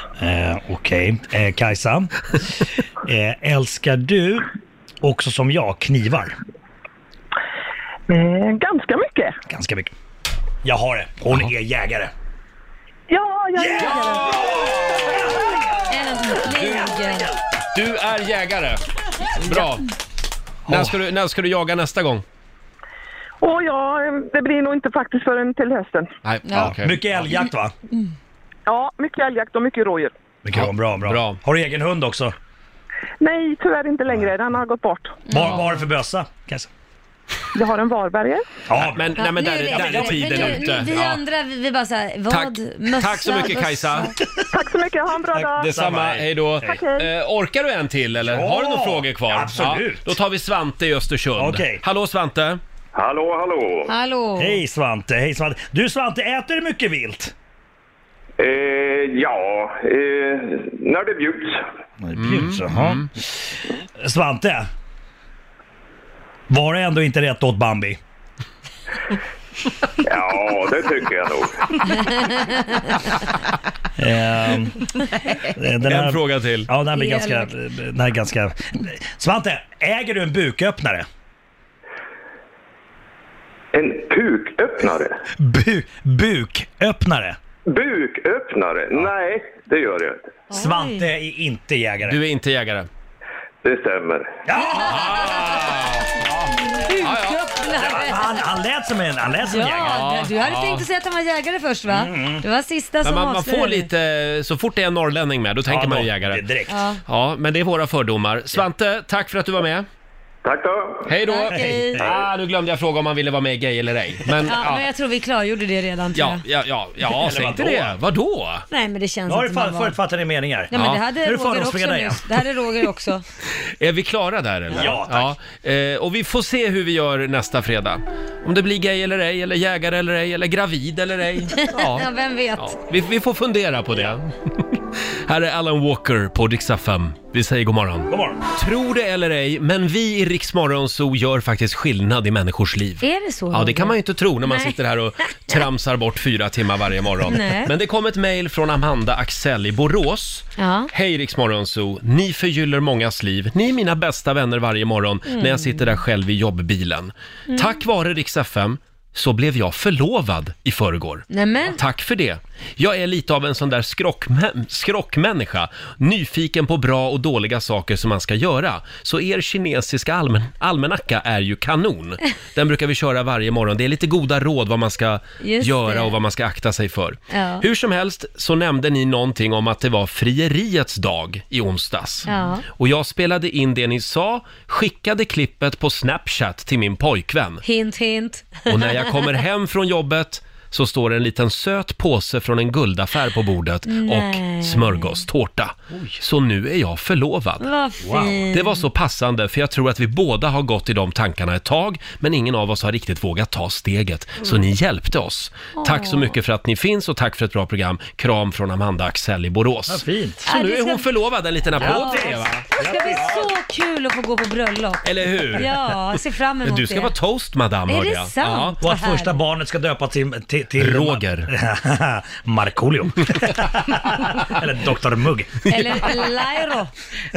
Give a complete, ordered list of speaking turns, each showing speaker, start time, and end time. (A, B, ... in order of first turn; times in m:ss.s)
0:00.2-0:04.5 A
0:05.0-0:06.4 A
0:08.1-0:09.4 B
0:09.5-0:09.9 A
0:10.6-0:12.1 A
0:13.1-0:14.5 B
0:13.6-0:15.6 A
0:15.9-0:17.3 C
0:16.5-0:16.9 D
0:17.7-0:18.8 D
0:19.4-0:19.9 D
0:20.7-0:21.0 A
0:20.7-0:22.2 D
0:23.4-0:26.1 B
0:26.2-0:27.3 D
0:26.5-0:26.7 C
0:26.6-0:27.7 A
0:28.7-0:30.1 B
0:30.4-0:32.3 A
0:30.5-0:31.4 D
0:33.2-0:35.3 B
0:35.3-0:36.7 A
0:35.3-0:35.7 C
0:37.5-0:38.4 B
0:38.7-0:40.8 A
0:38.8-0:41.2 D
0:39.2-0:44.1 C
0:42.3-0:44.1 D
0:44.5-0:45.7 B
0:45.3-0:46.8 A
0:45.6-0:52.6 D
0:46.6-0:47.1 B
0:48.2-0:50.1 A
0:51.4-0:51.8 A
0:52.9-0:53.9 E
0:53.9-0:54.6 C
0:54.4-0:57.3 A
0:58.4-1:01.6 E
1:02.0-1:03.4 A
1:02.2-1:03.1 D
1:04.0-1:04.7 A
1:06.5-1:08.0 A
1:10.0-1:11.6 E
1:14.0-1:14.9 A
1:15.5-1:21.0 A
1:15.8-1:16.7 D
1:16.9-1:17.5 C
1:23.7-1:25.2 E
1:25.4-1:27.4 A
1:27.7-1:30.3 E
1:30.5-1:31.1 C
1:30.5-1:32.2 A
1:32.0-1:32.9 D
1:33.6-1:34.4 E
1:34.4-1:35.3 A
1:34.7-1:36.1 D
1:34.8-1:35.5 C
1:36.7-1:38.5 C
1:37.0-1:37.4 D
1:37.7-1:40.0 A
1:39.4-1:43.9 C
1:39.8-1:40.8 D
1:41.9-1:42.4 A
1:43.0-1:46.4 D
1:45.7-1:46.7 A
1:46.7-1:47.0 C
1:47.1-1:49.8 D
1:50.4-1:51.1 E
1:51.1-1:54.8 D
1:51.2-1:52.0 C
1:51.5-1:52.1 A
1:54.4-1:56.4 C
1:56.1-1:58.6 D
1:57.0-1:58.0 A
1:58.7-2:00.0 C
1:59.3-2:02.2 A
2:00.7-2:03.2 C
2:00.7-2:01.0 D
2:03.8-3:07.6 D
2:04.7-2:05.3 A
2:11.6-2:12.8 C
2:18.1-2:18.4 A
2:23.0-2:24.8 C
2:27.2-2:27.7 C
2:30.6-2:30.9 C
2:35.3-2:35.9 C
2:37.5-2:37.8 C
2:41.3-2:41.8 C
2:55.4-2:56.1 C
2:57.3-2:57.6 C
3:02.2-3:02.6 C
3:07.6-3:09.2 C
3:08.7-3:17.6 D
3:13.9-3:15.2 C
3:17.6-3:18.8 C
3:18.0-3:18.4 A
3:18.5-3:32.7 D
3:25.8-3:26.3 C
3:29.9-3:30.4 A
3:30.5-3:31.1 C
3:31.8-3:33.5 A
3:31.8-3:37.1 C
3:35.0-3:35.7 D
3:36.6-3:38.8 D
3:37.9-3:39.4 C
3:38.8-3:45.6 A
3:40.8-3:41.5 D
3:45.6-3:46.1 D
3:45.7-3:46.9 C